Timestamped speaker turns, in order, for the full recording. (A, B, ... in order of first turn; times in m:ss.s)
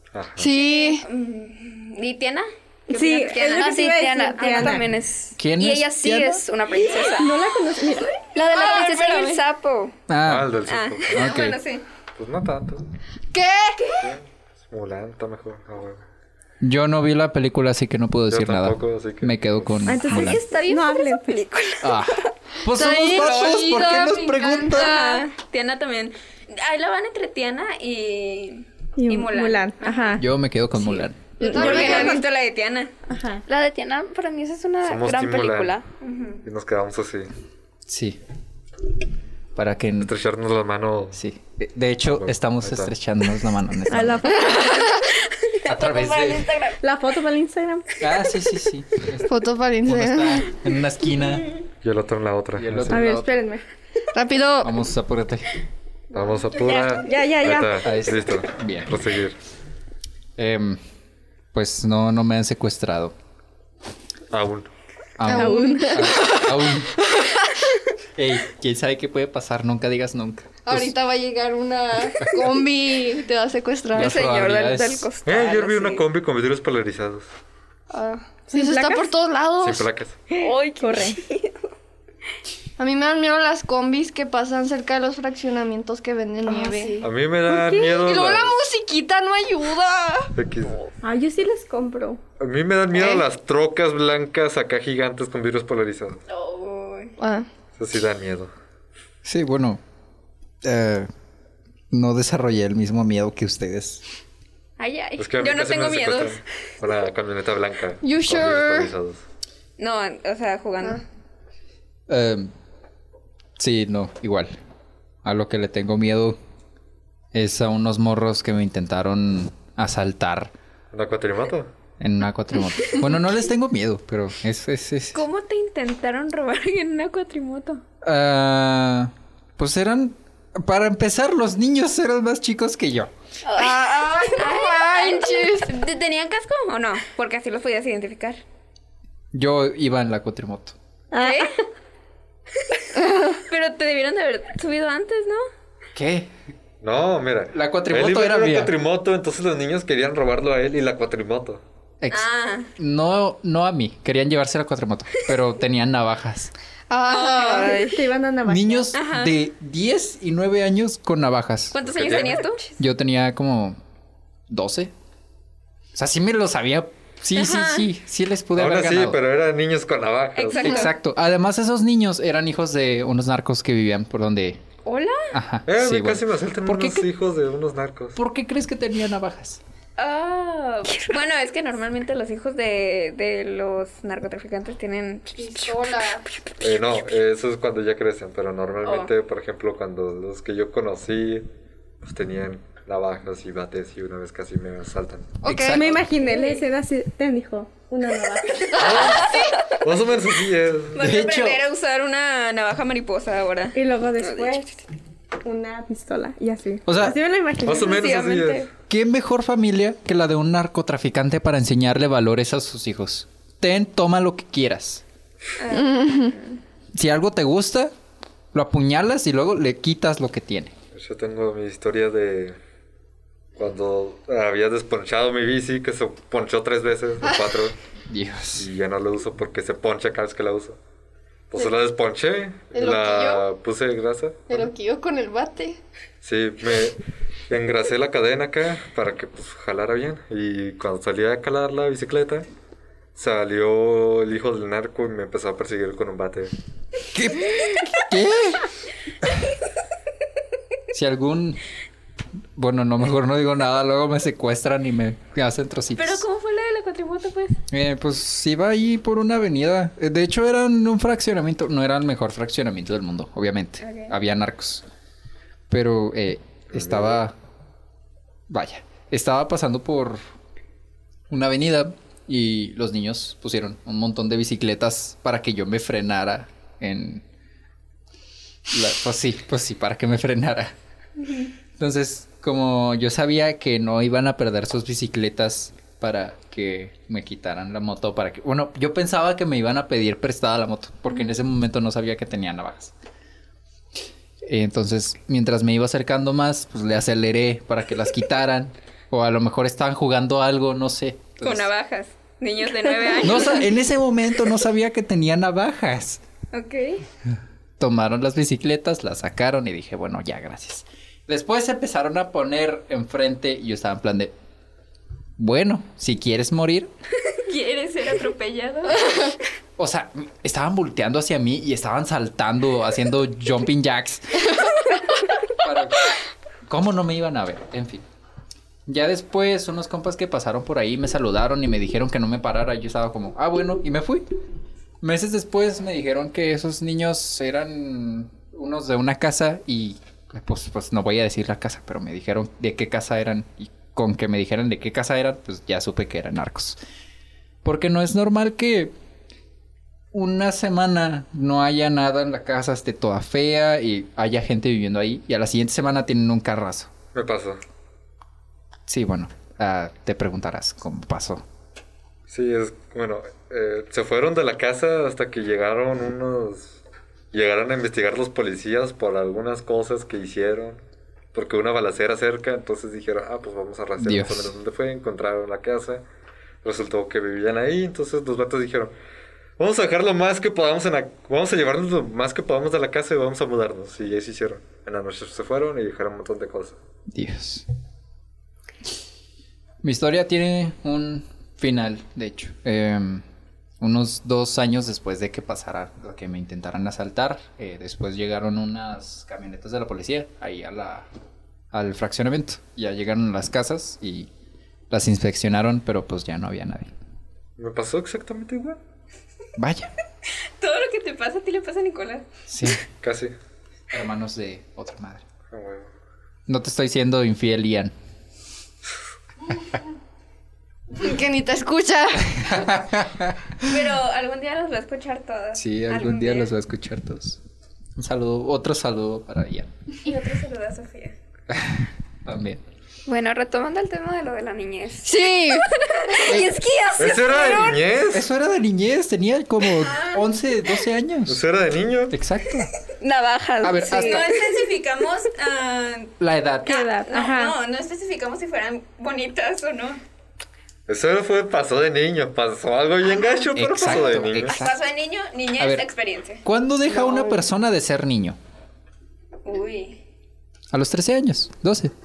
0:00.1-0:00.5 A
0:00.4-0:01.0 B
0:00.6-0:04.8 C
0:02.9-0:04.9 D
0:03.1-0:07.4 E
0:05.4-0:06.4 F
0:07.0-0:08.2 D
0:08.3-0:10.0 E
0:08.5-0:09.4 C
0:10.1-0:10.6 F
0:10.2-0:11.3 A
0:10.7-0:11.8 C
0:11.1-0:11.6 F
0:12.2-0:12.9 A
0:13.3-0:14.0 B
0:14.0-0:16.0 A
0:16.6-0:20.4 F
0:18.3-0:19.9 A
0:19.9-0:21.3 D
0:20.1-0:22.3 E
0:21.8-0:25.0 F
0:22.7-0:25.2 B
0:23.2-0:30.2 C
0:29.0-0:30.2 D
0:30.2-0:31.9 F
0:30.8-0:33.0 C
0:31.4-0:32.2 B
0:31.7-0:32.2 D
0:33.1-0:33.4 D
0:33.5-0:35.9 E
0:34.8-0:35.8 A
0:36.0-0:36.4 C
0:36.4-0:37.3 A
0:37.9-0:38.2 F
0:39.6-0:40.1 F
0:40.0-0:41.2 A
0:41.1-0:44.4 F
0:42.1-0:42.9 A
0:43.9-0:44.9 D
0:44.5-0:46.8 E
0:45.7-0:46.6 F
0:46.8-0:48.3 D
0:48.0-0:51.5 F
0:49.2-0:50.5 B
0:51.8-0:53.0 A
0:52.6-0:53.4 F
0:52.9-0:53.6 D
0:54.1-0:54.8 B
0:54.6-0:55.6 F
0:56.1-0:59.4 A
0:57.0-0:58.0 D
0:57.8-0:59.0 F
1:00.4-1:00.8 F
1:01.5-1:03.2 F
1:04.3-1:04.7 A
1:05.2-1:07.0 F
1:05.3-1:06.5 B
1:05.3-1:06.1 D
1:07.0-1:07.7 B
1:08.2-1:11.0 F
1:10.6-1:14.2 B
1:13.9-1:15.1 F
1:14.0-1:16.0 E
1:15.2-1:17.3 A
1:17.9-1:19.9 B
1:18.5-1:19.1 D
1:19.6-1:20.2 A
1:20.3-1:21.2 D
1:20.4-1:21.5 E
1:22.8-1:30.3 B
1:26.5-1:27.8 D
1:27.0-1:28.6 A
1:30.4-1:30.8 A
1:31.0-1:32.2 D
1:32.4-1:36.2 A
1:33.0-1:33.2 B
1:36.3-1:37.2 C
1:37.2-1:37.5 B
1:37.8-1:38.5 A
1:39.2-1:39.8 F
1:40.6-1:41.1 F
1:41.9-1:44.0 F
1:44.8-1:46.4 C
1:45.2-1:49.2 A
1:48.0-1:48.9 B
1:49.8-1:51.0 C
1:52.1-1:52.5 F
1:53.6-1:54.6 F
1:55.2-1:56.4 F
1:57.3-2:00.5 F
2:00.9-2:01.7 A
2:02.0-2:05.2 F
2:05.1-2:07.8 C
2:08.0-2:13.1 F
2:13.5-2:18.4 C
2:13.6-2:15.7 B
2:19.3-2:20.8 F
2:21.1-2:21.5 D
2:21.2-2:21.5 C
2:23.3-2:25.5 C
2:26.0-2:26.3 F
2:26.8-2:31.6 A
2:27.5-2:28.7 F
2:32.0-2:36.5 F
2:32.1-2:32.7 C
2:36.9-2:37.8 B
2:37.1-2:37.9 C
2:37.3-2:38.0 E
2:37.7-2:38.9 D
2:38.5-2:42.2 F
2:38.9-2:39.3 C
2:41.7-2:42.7 C
2:41.9-2:42.4 A
2:42.8-2:43.8 F
2:44.5-2:44.9 F
2:46.0-2:49.2 F
2:47.4-2:47.9 C
2:48.6-2:50.9 A
2:50.4-2:50.9 C
2:50.6-2:54.6 F
2:54.8-2:55.3 C
2:55.3-2:57.1 F
2:55.7-2:58.2 A
2:58.2-2:59.6 F
3:00.0-3:05.9 C
3:05.4-3:06.2 B
3:06.6-3:11.5 A
3:08.8-3:09.1 C
3:12.0-3:15.4 A
3:15.4-3:16.0 B
3:15.4-3:16.0 F
3:15.7-3:18.9 D
3:18.8-3:21.0 A
3:18.8-3:19.4 B
3:18.8-3:19.4 C
3:21.0-3:23.8 C
3:21.0-3:21.6 F
3:23.8-3:24.7 D
3:24.2-3:24.6 E
3:25.4-3:28.2 D
3:26.9-3:27.2 F
3:27.0-3:28.7 A
3:27.9-3:28.7 E
3:28.9-3:35.0 F
3:35.6-3:36.6 C
3:35.7-3:36.3 B
3:36.9-3:37.9 F
3:38.5-3:40.7 F
3:40.9-3:42.6 A
3:43.6-3:47.8 A
3:48.1-3:48.7 F
3:48.6-3:50.8 A
3:51.5-3:54.7 A
3:52.8-3:53.5 B
3:54.5-3:55.8 B
3:56.2-3:57.0 A
3:57.5-4:02.5 A
4:03.2-4:06.6 A
4:07.1-4:08.7 F
4:09.2-4:09.5 F
4:10.9-4:11.6 F
4:12.6-4:16.2 F
4:16.0-4:17.6 C
4:17.7-4:24.8 F
4:23.8-4:24.1 C
4:25.7-4:27.4 F
4:26.7-4:27.2 A
4:28.5-4:30.2 F
4:31.3-4:37.2 F
4:38.7-4:40.7 F
4:41.8-4:52.9 F
4:54.4-5:01.7 F
5:01.4-5:03.7 C
5:03.2-5:06.2 F
5:06.5-5:07.0 C
5:07.8-5:14.4 F
5:15.4-5:16.9 F
5:17.4-5:19.3 C
5:19.8-5:24.6 F
5:25.5-5:26.1 F
5:26.6-5:28.0 F
5:28.9-5:34.3 F
5:35.0-5:46.8 F
5:47.6-5:48.9 F
5:50.1-5:56.9 F
5:57.1-5:57.6 A
5:58.9-6:01.4 F
6:02.3-6:06.8 A
6:07.3-6:10.8 A
6:11.3-6:16.0 A
6:14.0-6:14.6 F
6:16.6-6:18.9 A
6:19.6-6:26.8 A
6:27.1-6:27.7 F
6:29.8-6:33.2 F
6:33.8-6:41.1 F
6:41.7-6:44.3 F
6:44.9-6:46.9 F
6:47.6-6:48.8 A
6:49.6-6:49.9 F
6:50.6-6:52.2 C
6:52.5-6:52.8 F
6:53.0-6:53.3 A
6:53.9-6:55.2 F
6:55.5-6:55.9 A
6:56.5-6:57.9 F
7:00.9-7:02.6 B
7:02.4-7:03.5 F
7:03.6-7:06.5 C
7:05.5-7:07.4 F
7:08.0-7:09.7 F
7:10.0-7:11.2 C
7:11.5-7:12.6 F
7:13.1-7:17.8 E
7:15.0-7:15.7 B
7:16.2-7:16.6 F
7:17.0-7:18.3 A
7:17.1-7:17.6 C
7:18.1-7:21.4 F
7:19.8-7:20.2 C
7:21.3-7:22.2 A
7:22.1-7:22.7 F
7:23.0-7:24.5 E
7:23.6-7:24.3 F
7:23.8-7:26.1 C
7:26.2-7:26.8 F
7:26.7-7:30.0 C
7:26.7-7:27.6 D
7:30.9-7:34.6 A
7:33.6-7:34.8 F
7:34.5-7:36.4 C
7:35.6-7:35.9 F
7:36.4-7:38.4 F
7:39.4-7:40.0 C
7:40.7-7:41.9 F